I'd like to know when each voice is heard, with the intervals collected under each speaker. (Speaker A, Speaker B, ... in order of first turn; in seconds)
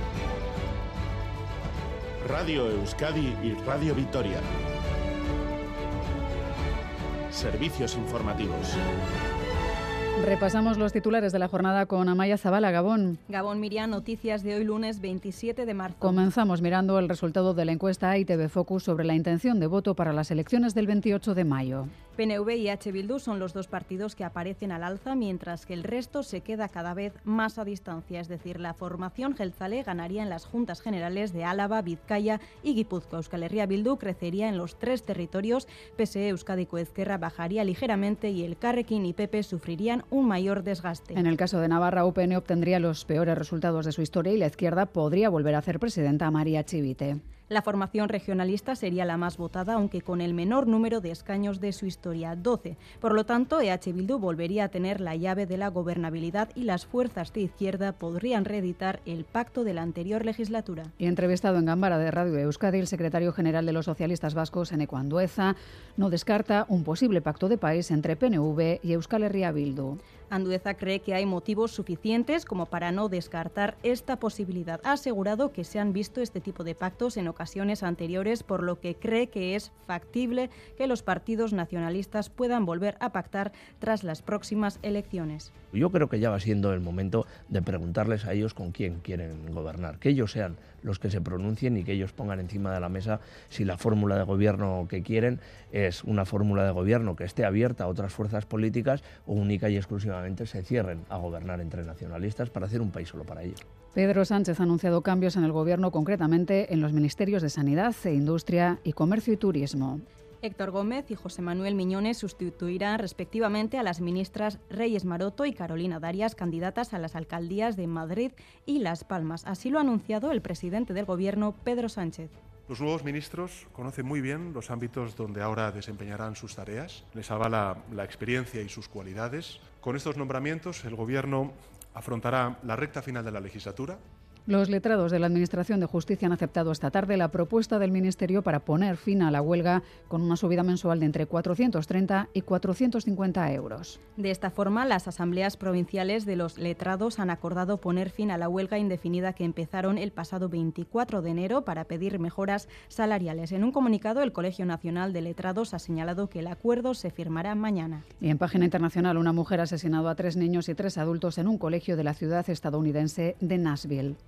Speaker A: 2.2-4.4, 7.3-8.8
Speaker B: 10.2-13.2, 16.0-21.9, 41.1-47.2, 61.0-70.0, 103.9-110.0, 134.5-144.0, 158.2-164.2
Speaker C: 13.3-16.2, 22.2-41.2, 47.5-60.9, 70.3-85.5, 110.4-122.3, 144.2-158.0
Speaker D: 85.7-103.6
Speaker E: 122.7-134.0